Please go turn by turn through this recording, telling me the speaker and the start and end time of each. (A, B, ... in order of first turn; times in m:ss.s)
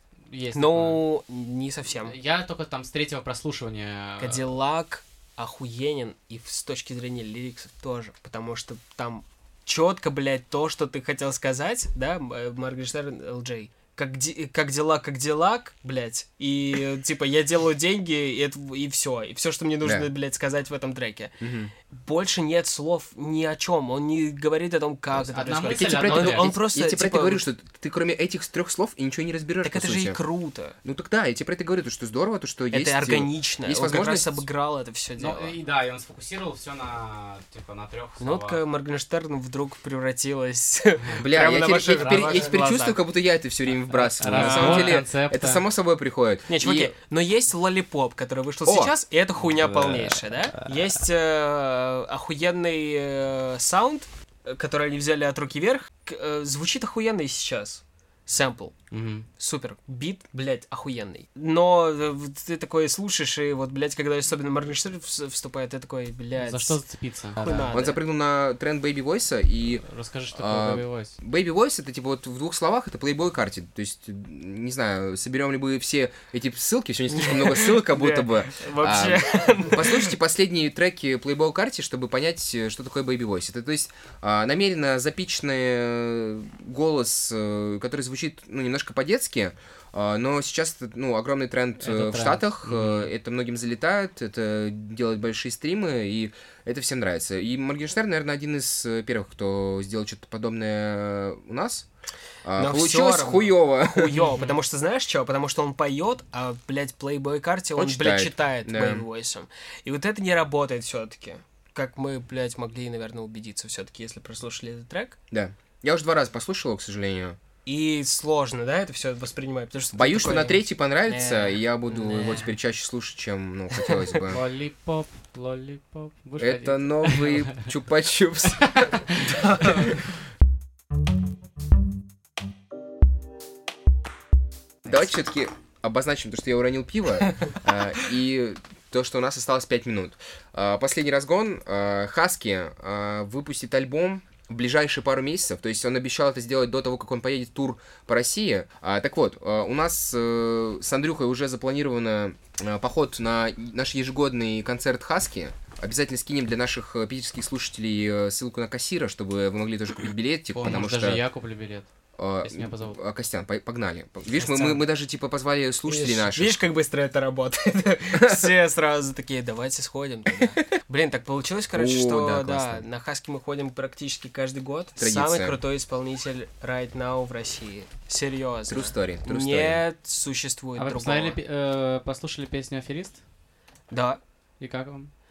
0:00.3-0:01.0 A
0:00.5-0:02.1 B
0:02.0-0:04.5 A
0:04.2-0:21.4 B
0:19.8-0:20.1 C
0:21.4-0:21.7 C
0:21.9-0:27.4 B
0:25.1-0:26.5 A
0:25.7-0:30.2 C
0:29.6-0:30.7 B
0:30.8-0:34.4 C
0:32.7-0:35.5 B
0:35.2-0:38.6 A
0:38.2-0:43.0 B
0:41.0-0:41.3 A
0:41.2-0:46.9 C
0:41.8-0:42.6 A
0:43.9-0:45.6 A
0:44.3-0:45.0 B
0:46.5-0:58.8 B
0:48.6-0:48.9 C
0:49.4-0:51.0 A
0:58.9-0:59.3 A
0:59.4-1:06.8 B
1:06.3-1:07.8 A
1:07.4-1:08.0 B
1:07.7-1:41.9 C
1:09.8-1:11.2 A
1:17.1-1:20.1 B
1:31.8-1:33.1 A
1:42.4-1:44.2 C
1:42.6-1:55.2 B
1:44.2-1:44.6 A
1:47.8-1:49.0 C
1:55.3-1:57.4 C
1:57.6-2:02.5 B
1:59.9-2:04.4 C
2:03.8-2:04.2 B
2:04.3-2:07.7 A
2:06.4-2:09.1 C
2:08.8-2:09.3 A
2:09.2-2:09.9 B
2:14.8-2:41.2 C
2:40.5-2:41.9 A
2:42.2-2:46.6 C
2:42.4-2:43.0 A
2:44.4-2:44.8 A
2:45.9-3:01.4 B
2:48.1-2:48.5 C
2:51.7-2:52.8 C
2:55.0-2:55.6 C
2:58.7-2:59.8 C
3:00.8-3:03.2 A
3:03.9-3:04.2 B
3:04.6-3:05.1 A